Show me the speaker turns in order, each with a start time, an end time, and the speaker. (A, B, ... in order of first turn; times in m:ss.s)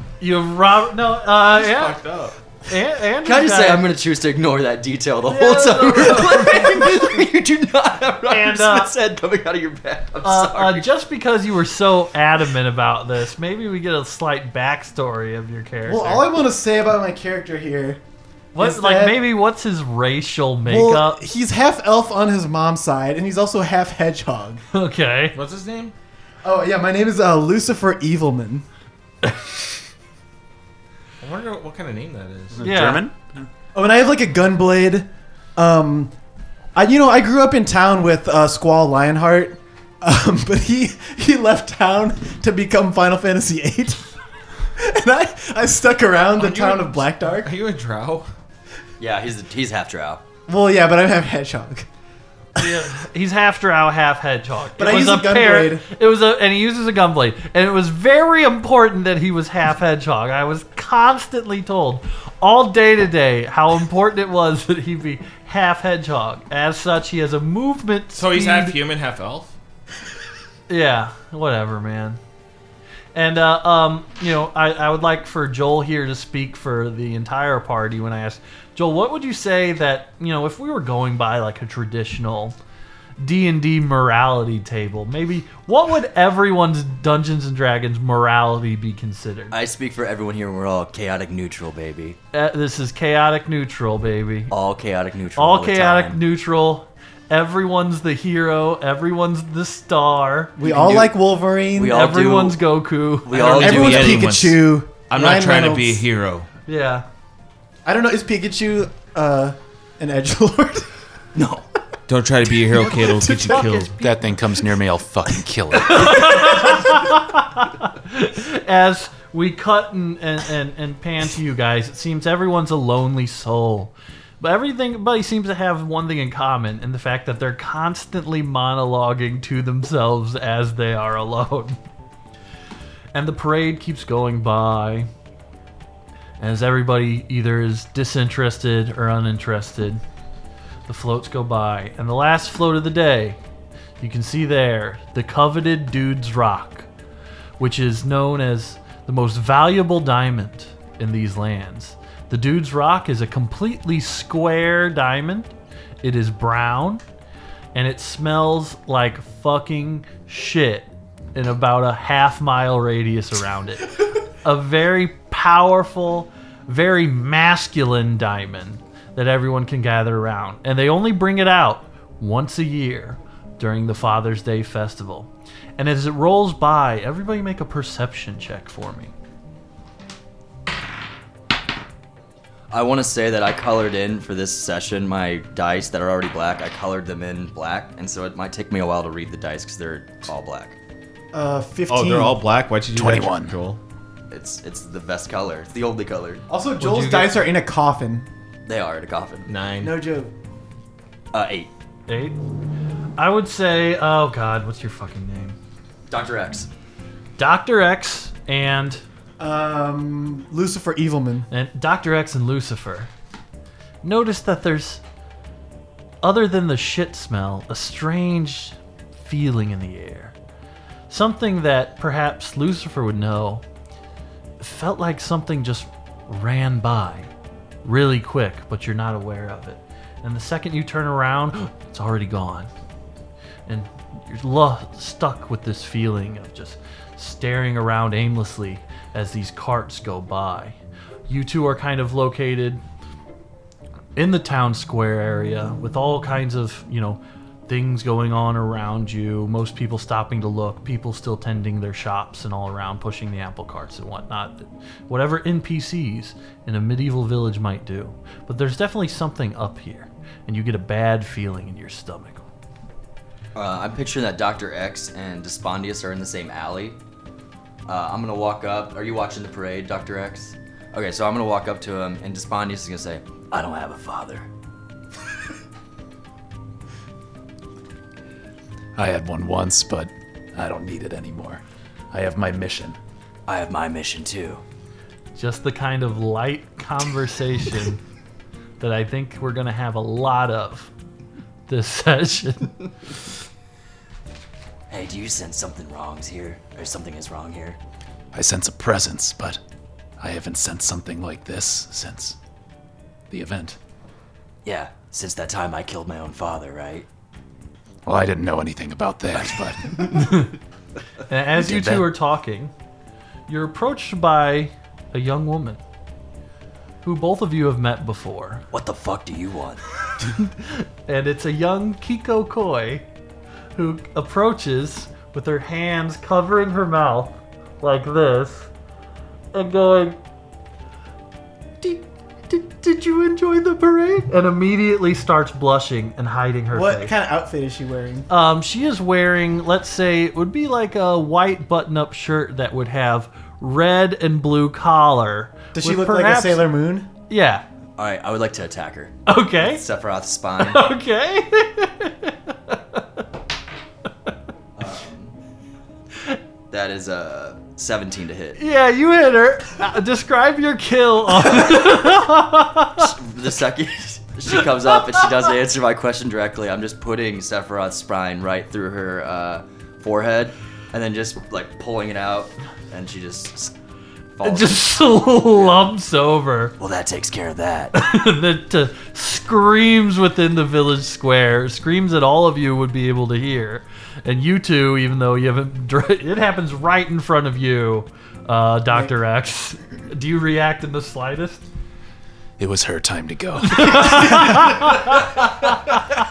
0:00.2-0:02.0 A
0:01.6-0:02.4 B
0:02.7-0:03.9 A
0:03.2-0:10.9 C
0:05.3-0:07.0 A
0:08.3-0:08.9 A
0:10.2-0:16.3 A
0:15.9-0:18.0 D
0:18.5-0:21.2 A
0:18.6-0:19.2 D
0:20.7-0:24.6 D
0:24.7-0:25.4 A
0:25.4-0:25.9 B
0:26.4-0:28.6 D
0:31.2-0:32.7 B
0:32.6-0:33.5 E
0:32.6-0:33.1 A
0:33.7-0:36.1 D
0:36.8-0:44.0 D
0:44.8-0:47.6 D
0:46.4-0:48.3 B
0:49.0-0:50.2 C
0:50.5-0:51.9 D
0:52.6-1:08.8 A
0:54.8-0:55.9 D
1:08.1-1:09.5 B
1:10.7-1:12.2 A
1:13.2-1:22.6 A
1:23.2-1:29.6 A
1:29.5-1:32.2 C
1:32.3-1:34.5 A
1:34.5-1:36.2 C
1:35.4-1:40.7 A
1:40.6-1:42.0 D
1:40.8-1:41.1 B
1:41.8-1:42.6 C
1:41.8-1:44.0 A
1:43.2-1:44.3 C
1:43.4-1:46.5 B
1:43.6-1:46.0 D
1:46.7-1:47.0 A
1:47.8-1:50.9 D
1:51.4-1:51.6 C
1:52.1-1:54.0 B
1:52.8-1:53.9 D
1:54.0-1:56.4 E
1:55.8-2:11.8 A
2:13.1-2:15.1 A
2:16.4-2:20.0 A
2:20.9-2:23.4 A
2:24.0-2:26.9 A
2:27.6-2:37.0 A
2:37.7-2:59.1 A
3:02.7-3:10.8 C
3:11.3-3:12.4 D
3:11.9-3:13.8 B
3:13.0-3:13.5 E
3:14.3-3:16.4 C
3:16.5-3:18.3 D
3:16.8-3:17.4 A
3:18.7-3:19.5 C
3:19.5-3:20.0 B
3:19.8-3:20.3 D
3:21.3-3:21.7 C
3:22.1-3:22.4 A
3:23.2-3:25.6 A
3:26.1-3:26.7 C
3:27.4-3:29.0 A
3:29.4-3:31.5 D
3:31.5-3:33.1 A
3:34.0-3:35.0 A
3:36.2-3:40.3 A
3:41.1-3:43.6 A
3:44.6-3:47.3 A
3:47.8-3:52.7 A
3:53.7-4:00.8 A
4:01.3-4:02.8 A
4:04.2-4:22.4 A
4:23.6-4:27.0 C
4:27.9-4:34.5 C
4:39.0-4:41.6 E
4:42.1-4:43.0 E
4:43.5-4:44.6 C
4:45.4-4:48.0 A
4:48.8-4:50.9 A
4:51.7-4:52.8 A
4:54.9-4:57.8 C
4:58.3-4:59.6 E
5:00.2-5:02.4 E
5:03.3-5:03.8 E
5:04.6-5:07.1 C
5:08.1-5:10.2 E
5:10.1-5:10.6 A
5:11.3-5:12.7 A
5:11.6-5:12.2 E
5:13.5-5:15.8 A
5:17.0-5:18.7 A
5:18.7-5:19.8 C
5:20.4-5:23.0 A
5:23.8-5:28.7 A
5:29.5-5:30.2 A
5:31.8-5:37.1 A
5:36.7-5:38.3 D
5:38.3-5:46.7 A
5:45.8-5:47.1 D
5:47.3-5:47.6 A
5:48.0-5:50.9 C
5:49.3-5:49.8 A
5:50.6-5:53.0 A
5:54.8-5:55.4 C
5:56.7-5:58.6 C
5:58.6-6:03.1 A
6:03.0-6:13.7 C
6:14.4-6:15.8 C
6:14.4-6:16.8 A
6:16.8-6:18.0 C
6:17.9-6:31.6 A
6:32.6-6:34.8 E
6:33.7-6:35.6 A